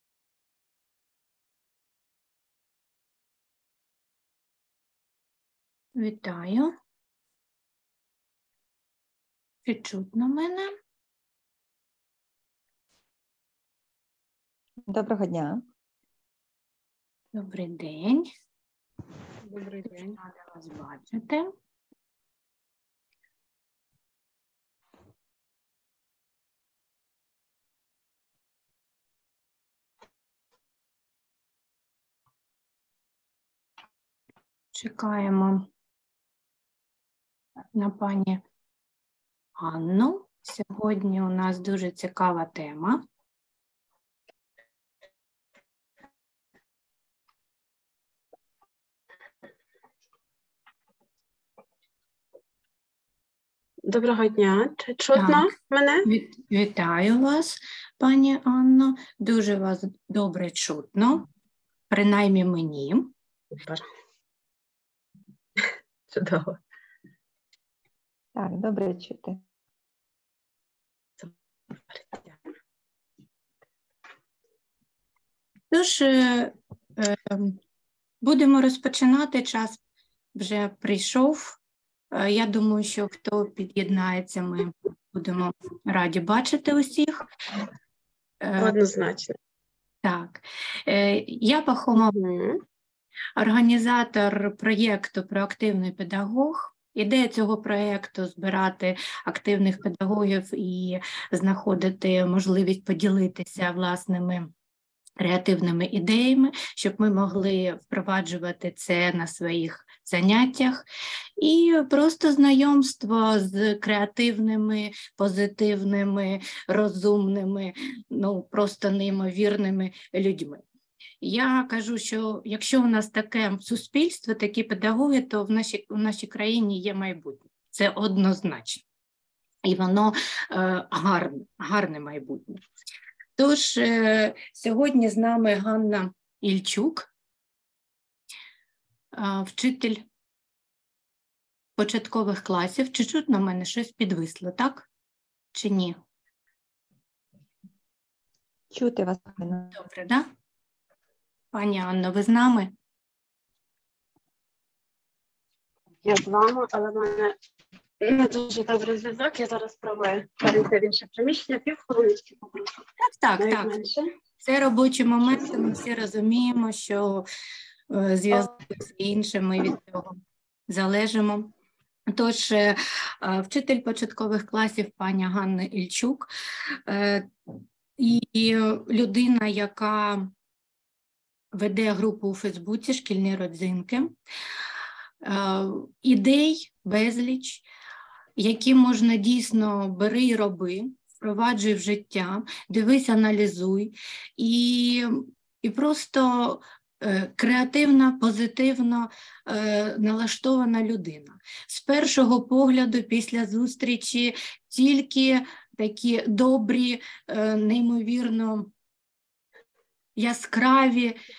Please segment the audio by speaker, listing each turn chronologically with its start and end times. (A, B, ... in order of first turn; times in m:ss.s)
0:06.0-0:06.7 A
0:09.6-0:10.7 A
0:14.9-0:15.6 B
0:17.3-0:18.3 A
0:19.4-0:21.5 A
0:34.7-0:35.7 A
0:37.7-0:38.4 A
0:39.6-0:43.0 A
0:53.8-0:56.1 C
0:55.1-0:55.5 A
0:56.0-1:01.3 A
1:01.9-1:03.1 A
1:03.6-1:03.9 C
1:06.1-1:06.6 C
1:08.4-1:09.4 B
1:11.9-1:12.4 C
1:15.7-1:17.6 A
1:18.2-1:19.8 A
1:20.4-1:21.6 A
1:22.1-1:27.3 A
1:28.4-1:28.8 A
1:28.6-1:29.4 C
1:30.0-1:32.2 A
1:32.0-1:32.6 C
1:33.4-1:44.5 A
1:45.2-1:50.8 A
1:51.4-2:00.6 A
2:01.2-2:08.8 A
2:09.6-2:12.6 A
2:13.4-2:17.1 A
2:19.1-2:20.0 A
2:21.8-2:24.9 A
2:25.5-2:26.0 A
2:28.7-2:29.8 B
2:29.7-2:30.3 A
2:31.5-2:32.7 A
2:36.0-2:37.4 C
2:38.0-2:42.9 C
2:43.0-2:43.8 A
2:43.4-2:44.1 C
2:44.4-2:47.3 A
2:47.9-2:51.5 A
2:52.1-2:56.3 A
2:56.9-2:57.3 A
2:58.0-3:00.3 A
3:01.5-3:04.2 A
3:05.2-3:07.7 A
3:08.4-3:28.7 A
3:30.2-3:31.2 A